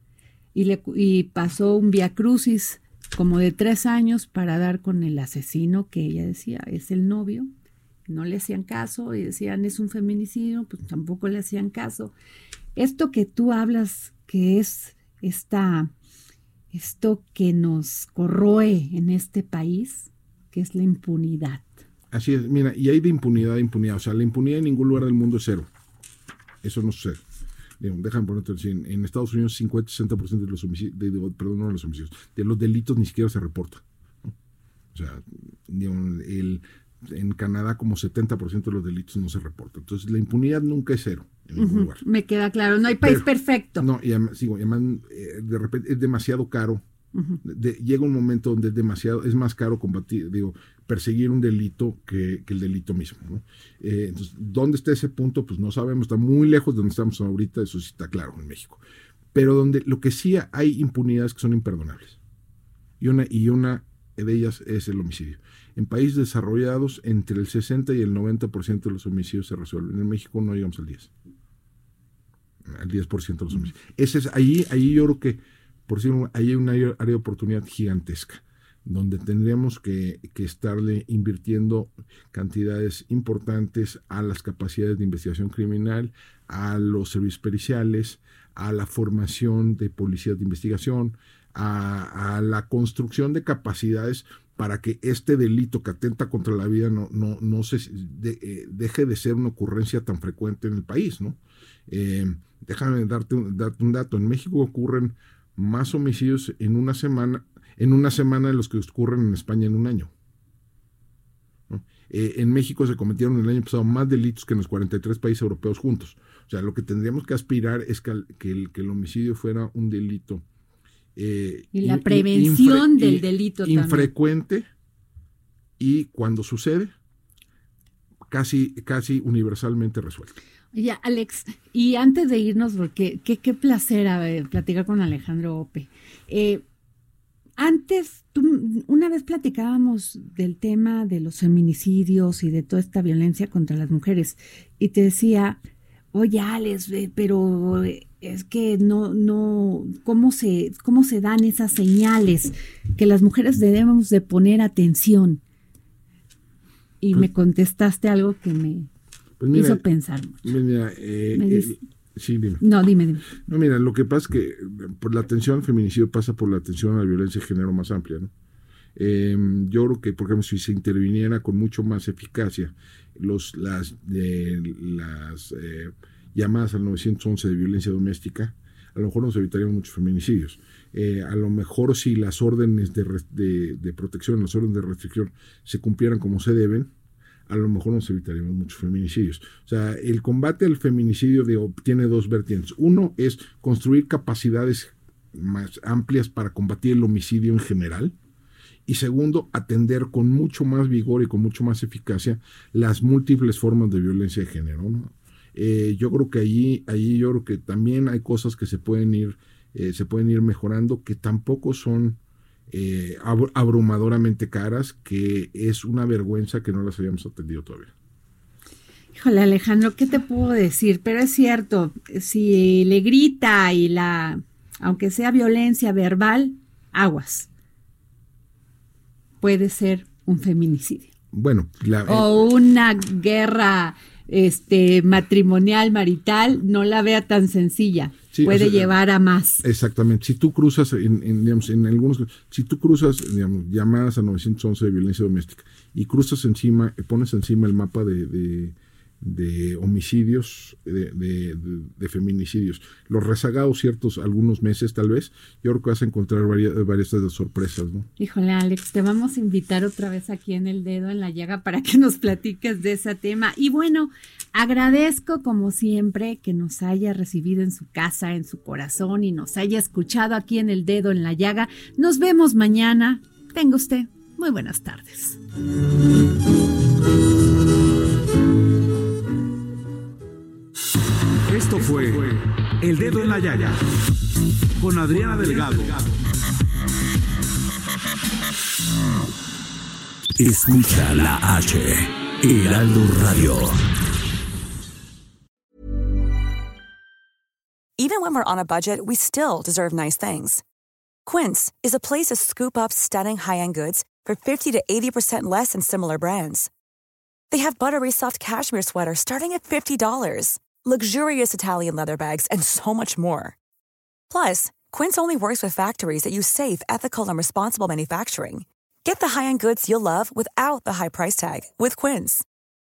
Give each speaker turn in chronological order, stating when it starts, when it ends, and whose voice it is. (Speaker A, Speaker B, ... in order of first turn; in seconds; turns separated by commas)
Speaker A: 0.5-7.5, Speaker A: 8.1-12.1, Speaker A: 12.8-15.9, Speaker A: 16.7-21.7, Speaker B: 22.1-25.7, Speaker B: 26.6-27.2, Speaker B: 27.8-34.3, Speaker B: 34.9-42.0, Speaker A: 41.5-43.9, Speaker B: 43.0-43.3, Speaker B: 43.8-46.8, Speaker A: 47.1-47.4, Speaker B: 47.4-58.8, Speaker B: 59.3-62.2, Speaker B: 63.0-71.1, Speaker B: 72.6-110.1, Speaker B: 111.7-120.4, Speaker B: 121.2-124.7, Speaker A: 121.7-124.1, Speaker B: 125.8-126.9, Speaker B: 128.3-130.4, Speaker A: 130.7-136.6, Speaker A: 137.6-145.6, Speaker A: 146.1-155.4, Speaker A: 157.0-158.9, Speaker B: 159.4-159.8, Speaker A: 159.5-160.5, Speaker B: 160.4-162.6, Speaker A: 161.3-161.8, Speaker A: 162.6-163.3, Speaker B: 163.4-168.3, Speaker B: 168.9-186.9, Speaker B: 187.5-198.1, Speaker B: 198.8-212.2, Speaker B: 212.7-217.9, Speaker A: 219.1-227.5, Speaker A: 229.4-231.1, Speaker B: 231.3-232.3, Speaker A: 232.1-239.6, Speaker B: 238.3-238.9, Speaker B: 239.6-258.1, Speaker A: 258.2-275.4, Speaker C: 281.5-283.8, Speaker C: 284.8-286.1, Speaker D: 290.4-293.8, Speaker E: 298.0-300.6, Speaker E: 301.2-306.7, Speaker E: 307.5-313.6, Speaker E: 314.3-322.4